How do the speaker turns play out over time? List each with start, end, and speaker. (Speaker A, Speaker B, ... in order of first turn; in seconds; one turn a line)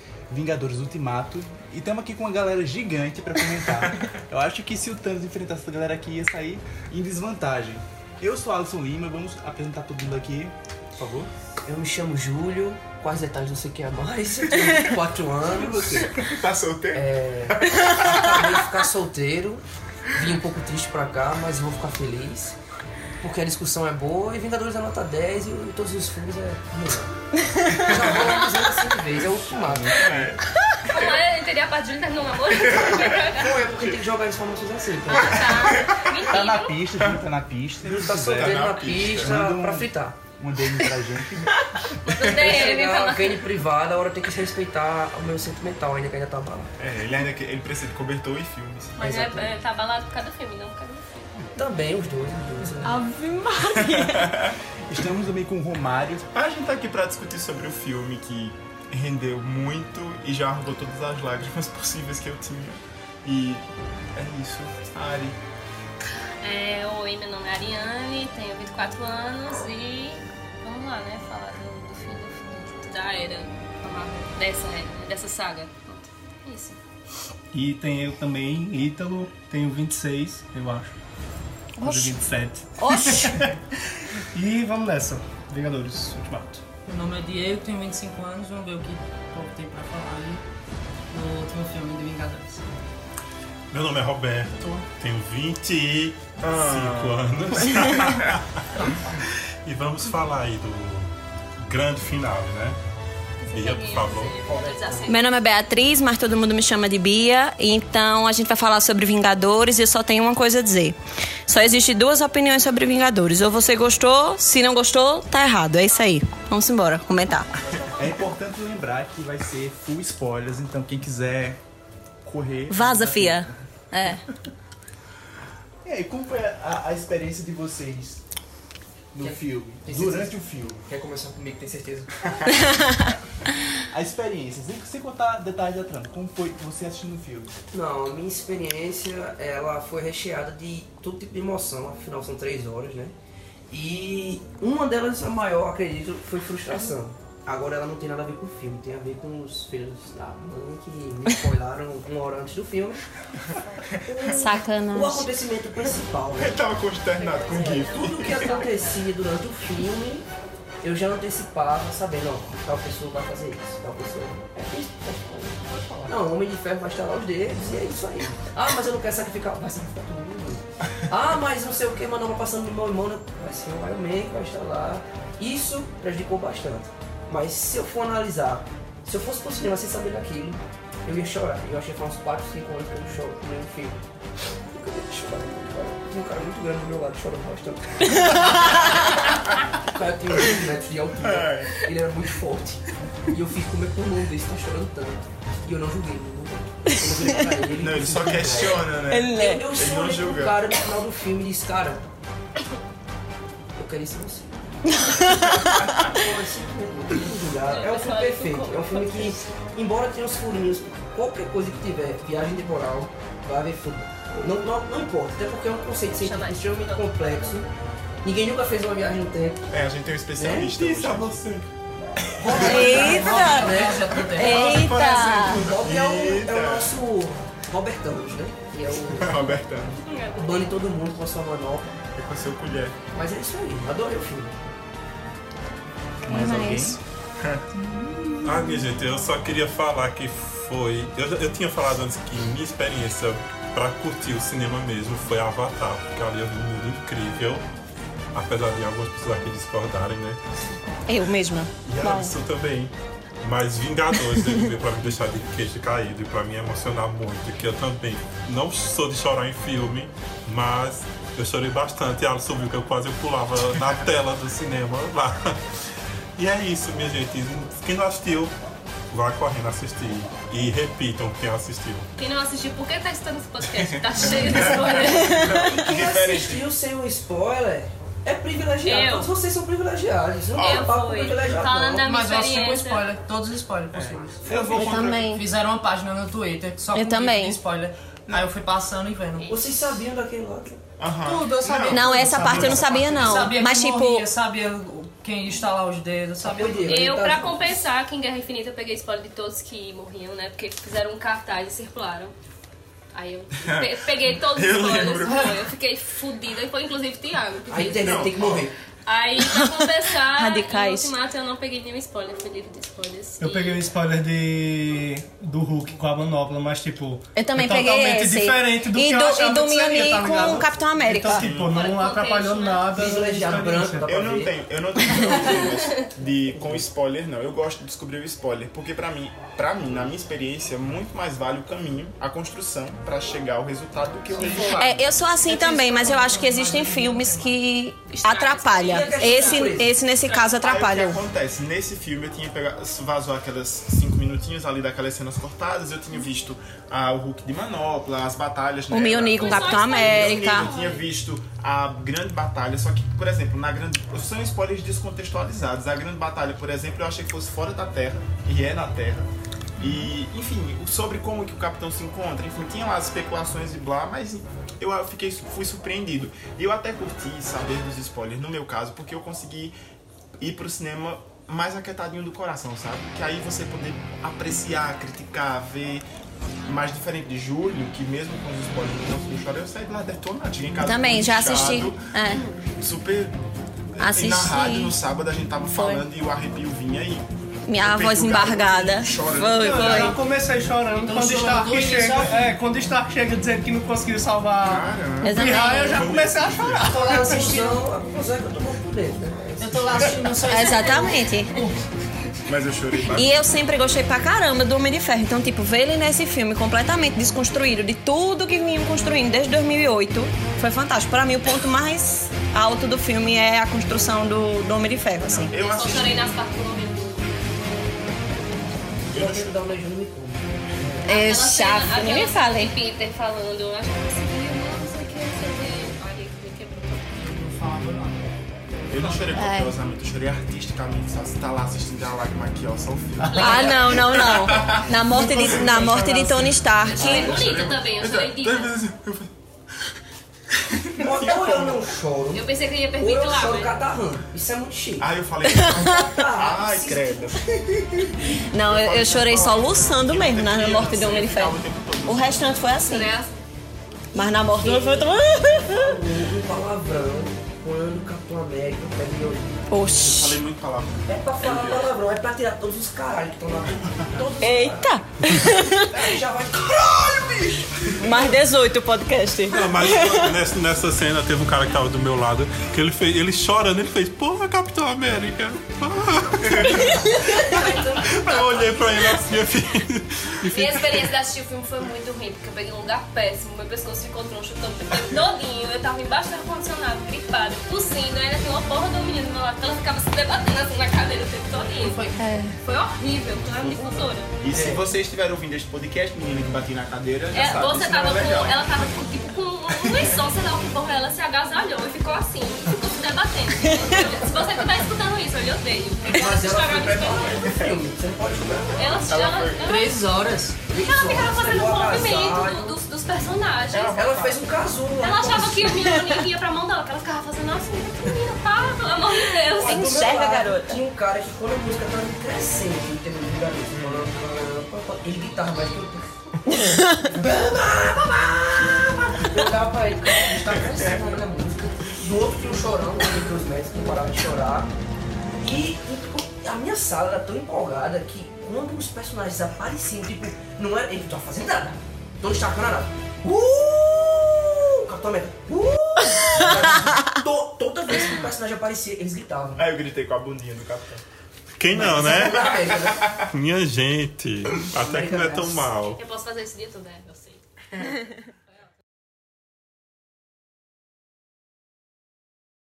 Speaker A: 0.3-11.3
Speaker B: 11.7-16.1
Speaker C: 15.6-18.7
Speaker B: 16.9-19.6
Speaker B: 20.1-22.6
Speaker B: 23.2-27.1
Speaker D: 27.5-28.0
Speaker B: 27.7-30.3
Speaker C: 27.8-28.4
Speaker C: 29.4-31.1
Speaker E: 30.9-33.5
Speaker C: 32.5-34.0
Speaker B: 33.3-35.6
Speaker E: 35.1-36.9
Speaker C: 35.1-36.1
Speaker A: 36.3-41.6
Speaker B: 37.8-40.2
Speaker C: 38.0-39.4
Speaker E: 42.1-43.4
Speaker B: 42.1-46.7
Speaker C: 42.1-42.4
Speaker C: 46.8-49.4
Speaker E: 49.0-51.3
Speaker B: 49.0-49.4
Speaker B: 51.6-53.0
Speaker D: 52.8-54.5
Speaker C: 53.7-54.6
Speaker A: 54.9-56.3
Speaker C: 56.3-65.4
Speaker E: 66.4-76.8
Speaker F: 77.5-80.9
Speaker D: 81.8-82.2
Speaker F: 81.8-83.6
Speaker D: 82.8-83.4
Speaker F: 84.3-86.6
Speaker G: 86.9-90.4
Speaker G: 91.1-92.7
Speaker H: 93.7-98.8
Speaker C: 96.4-98.4
Speaker H: 99.7-101.1
Speaker H: 101.6-102.8
Speaker E: 103.4-105.3
Speaker H: 103.5-104.4
Speaker G: 104.5-105.0
Speaker D: 105.1-117.5
Speaker A: 117.8-121.6
Speaker A: 122.2-123.6
Speaker D: 122.7-124.2
Speaker A: 125.8-128.2
Speaker A: 129.1-130.8
Speaker B: 129.2-130.3
Speaker B: 130.8-132.1
Speaker D: 132.6-133.1
Speaker A: 133.9-137.6
Speaker B: 137.7-143.1
Speaker B: 143.7-153.0
Speaker B: 154.1-156.6
Speaker D: 154.3-155.3
Speaker C: 156.4-158.5
Speaker B: 157.5-160.3
Speaker B: 160.8-184.0
Speaker C: 165.8-166.1
Speaker B: 184.7-189.2
Speaker B: 189.8-202.1
Speaker C: 191.2-191.8
Speaker D: 197.1-197.4
Speaker C: 197.8-200.6
Speaker D: 199.1-199.7
Speaker B: 203.8-204.5
Speaker D: 204.9-205.8
Speaker B: 205.1-217.7
Speaker E: 207.7-209.4
Speaker E: 216.2-217.3
Speaker B: 218.2-219.6
Speaker C: 219.7-221.5
Speaker B: 220.3-220.7
Speaker H: 220.6-221.7
Speaker C: 222.4-223.4
Speaker G: 222.4-224.6
Speaker B: 222.4-229.4
Speaker D: 222.5-225.7
Speaker C: 224.4-226.9
Speaker C: 229.1-230.0
Speaker E: 230.1-230.7
Speaker B: 230.3-231.9
Speaker C: 232.2-233.0
Speaker B: 233.1-234.6
Speaker D: 236.2-237.0
Speaker C: 236.3-237.6
Speaker D: 238.2-238.8
Speaker H: 238.4-247.6
Speaker H: 248.3-250.4
Speaker D: 251.1-252.3
Speaker H: 251.9-265.6
Speaker D: 254.3-254.7
Speaker H: 266.4-268.5
Speaker H: 269.1-272.1
Speaker E: 272.2-275.4
Speaker C: 273.6-276.7
Speaker D: 275.1-275.6
Speaker B: 275.4-282.1
Speaker E: 278.8-279.3
Speaker C: 280.6-280.9
Speaker E: 280.6-283.1
Speaker G: 282.0-289.6
Speaker C: 283.9-285.4
Speaker D: 284.5-285.4
Speaker D: 286.9-287.6
Speaker B: 289.5-290.8
Speaker C: 291.0-293.5
Speaker G: 291.2-297.1
Speaker D: 291.9-294.3
Speaker F: 292.2-292.7
Speaker B: 296.4-297.8
Speaker E: 296.9-302.3
Speaker E: 303.1-308.0
Speaker C: 303.6-305.5
Speaker B: 307.7-308.8
Speaker C: 307.8-308.7
Speaker E: 309.1-313.9
Speaker D: 309.4-311.1
Speaker F: 313.4-324.1
Speaker D: 317.4-321.5
Speaker C: 320.2-321.8
Speaker E: 321.5-323.2
Speaker B: 322.9-324.6
Speaker C: 324.1-334.9
Speaker D: 325.1-325.5
Speaker E: 325.2-326.0
Speaker G: 334.4-337.6
Speaker D: 334.7-341.2
Speaker E: 338.1-340.7
Speaker B: 338.8-339.9
Speaker C: 340.6-369.8
Speaker D: 348.9-350.7
Speaker E: 349.3-351.1
Speaker C: 370.4-376.1
Speaker C: 376.6-390.2
Speaker D: 380.8-382.5
Speaker D: 384.0-385.0
Speaker D: 385.7-386.1
Speaker D: 387.7-390.1
Speaker F: 389.6-397.6
Speaker G: 390.9-392.5
Speaker C: 394.6-395.4
Speaker D: 395.2-396.1
Speaker H: 395.9-396.9
Speaker C: 396.0-396.8
Speaker B: 396.8-400.2
Speaker G: 396.9-397.8
Speaker G: 399.6-401.9
Speaker D: 400.4-401.6
Speaker C: 402.5-403.4
Speaker D: 403.1-415.5
Speaker C: 415.5-416.3
Speaker E: 415.5-418.9
Speaker B: 419.1-421.1
Speaker C: 419.1-419.6
Speaker E: 421.1-427.3
Speaker D: 421.1-422.7
Speaker G: 427.2-428.3
Speaker C: 428.9-439.3
Speaker E: 428.9-429.3
Speaker D: 429.3-429.7
Speaker E: 433.2-434.0
Speaker D: 433.3-437.6
Speaker E: 436.8-438.8
Speaker C: 440.5-441.9
Speaker B: 441.0-445.1
Speaker E: 442.3-443.8
Speaker C: 445.0-452.5
Speaker D: 445.5-446.2
Speaker B: 446.0-447.4
Speaker D: 448.5-453.1
Speaker E: 452.9-453.4
Speaker D: 454.1-456.0
Speaker B: 454.6-459.8
Speaker E: 454.8-455.1
Speaker D: 459.7-460.4
Speaker C: 459.9-461.9
Speaker B: 461.1-468.0
Speaker D: 464.4-466.0
Speaker D: 468.0-470.4
Speaker H: 469.5-477.1
Speaker D: 476.7-477.3
Speaker B: 477.2-479.3
Speaker H: 478.0-480.8
Speaker E: 480.4-492.1
Speaker G: 491.8-492.4
Speaker D: 492.2-492.5
Speaker E: 492.6-494.3
Speaker C: 493.4-498.8
Speaker B: 494.5-494.9
Speaker E: 497.3-507.5
Speaker C: 499.8-500.2
Speaker B: 506.1-509.0
Speaker C: 507.5-507.7
Speaker E: 508.8-510.0
Speaker C: 509.1-509.8
Speaker G: 509.6-510.6
Speaker B: 510.7-512.8
Speaker E: 510.7-514.2
Speaker C: 513.7-514.5
Speaker B: 513.9-515.8
Speaker E: 515.0-520.0
Speaker D: 515.8-516.2
Speaker B: 519.5-534.7
Speaker D: 519.6-520.8
Speaker C: 523.7-524.1
Speaker D: 526.5-527.1
Speaker B: 535.4-549.7
Speaker C: 549.6-551.0
Speaker H: 551.6-552.6
Speaker B: 551.7-553.1
Speaker C: 552.1-553.3
Speaker H: 553.3-556.0
Speaker C: 554.6-555.1
Speaker B: 554.8-555.7
Speaker E: 556.0-557.9